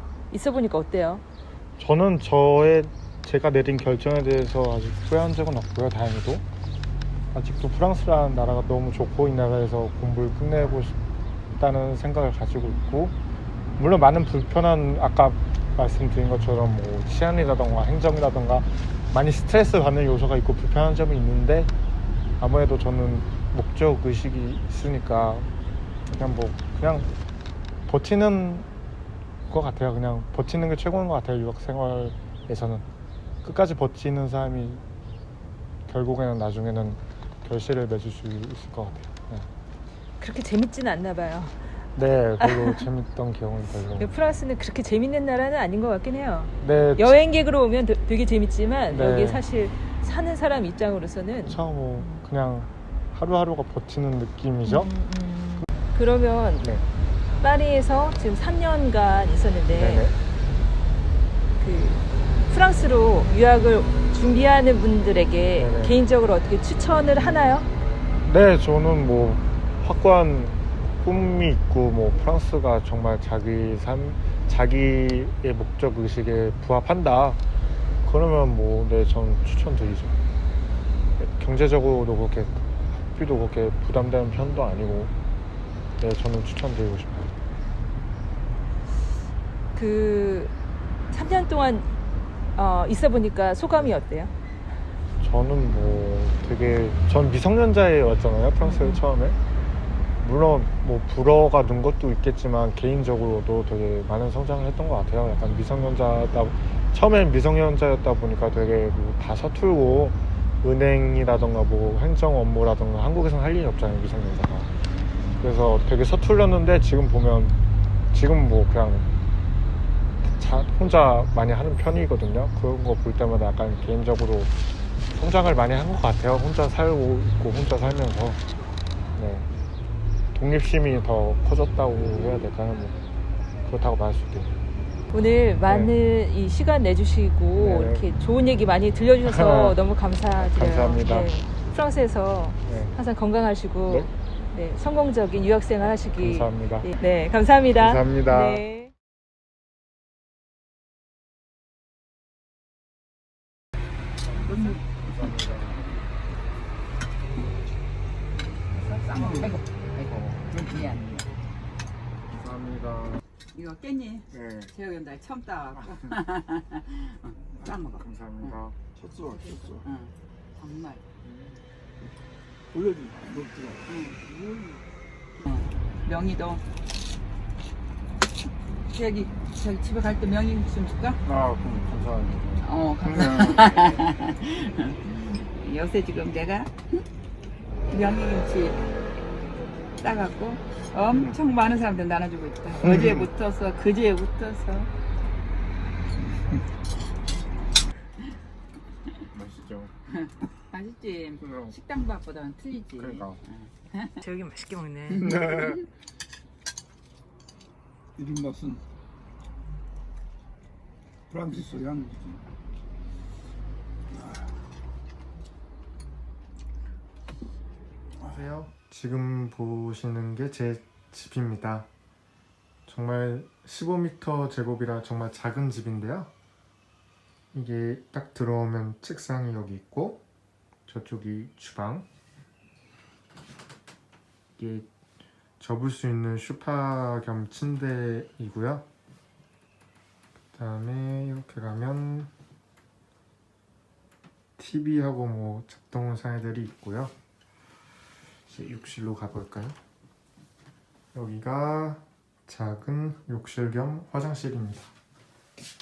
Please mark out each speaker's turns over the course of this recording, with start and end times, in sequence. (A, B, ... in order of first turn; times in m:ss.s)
0:00.3-0:01.2 A
0:01.8-0:06.4 B
0:07.3-0:11.0 B
0:11.6-0:13.2 B
0:13.8-0:21.7 B
0:22.4-0:25.5 B
0:26.1-0:27.1 B
0:27.9-0:28.7 B
0:29.5-0:32.8 B
0:33.4-0:34.8 B
0:35.9-0:39.5 B
0:40.2-0:41.7 A
0:42.0-0:44.1 B
0:42.4-0:42.8 A
0:44.0-0:52.2 A
0:46.6-0:47.1 B
0:48.9-0:49.4 B
0:51.5-0:54.9 B
0:54.6-0:56.7 A
0:57.4-1:00.1 A
0:59.7-1:00.1 B
1:01.6-1:07.7 A
1:05.6-1:05.9 B
1:08.2-1:17.4 B
1:18.0-1:20.1 B
1:21.2-1:22.6 B
1:23.1-1:25.1 B
1:26.0-1:27.4 B
1:29.7-1:30.5 A
1:31.1-1:31.9 A
1:32.6-1:34.3 A
1:35.2-1:39.4 B
1:38.6-1:39.0 A
1:40.2-1:54.7 B
1:55.4-1:57.6 B
1:58.1-1:59.1 B
2:00.2-2:04.5 B
2:05.1-2:08.4 B
2:09.2-2:09.5 B
2:10.3-2:13.0 B
2:13.7-2:14.5 B
2:15.1-2:28.9 A
2:15.7-2:15.9 B
2:17.6-2:18.0 B
2:19.2-2:19.8 B
2:20.4-2:21.3 B
2:22.6-2:22.9 B
2:26.2-2:26.9 B
2:27.8-2:28.6 B
2:34.4-2:34.8 C
2:35.1-2:35.7 B
2:38.7-2:41.3 C
2:42.3-2:43.2 B
2:43.5-2:48.6 C
2:44.3-2:44.7 B
2:48.0-2:48.7 B
2:49.0-2:49.8 D
2:49.8-2:51.0 C
2:51.3-2:51.5 B
2:52.7-2:53.8 D
2:53.8-2:54.8 C
2:55.4-2:56.6 C
2:58.9-3:01.3 C
3:01.6-3:02.4 B
3:02.6-3:07.0 C
3:07.9-3:08.8 C
3:10.0-3:14.9 C
3:19.3-3:19.9 B
3:20.1-3:24.2 C
3:24.2-3:25.4 A
3:25.1-3:25.8 C
3:28.2-3:28.8 D
3:31.3-3:32.4 D
3:34.1-3:34.4 D
3:38.3-3:41.9 B
3:42.9-3:46.3 B
3:47.5-3:50.2 B
3:50.9-3:52.0 B
3:54.6-3:54.9 B
3:55.6-3:58.8 B
4:00.5-4:02.3 B
4:04.6-4:07.1 B
4:08.5-4:09.8 B
4:11.1-4:14.9 B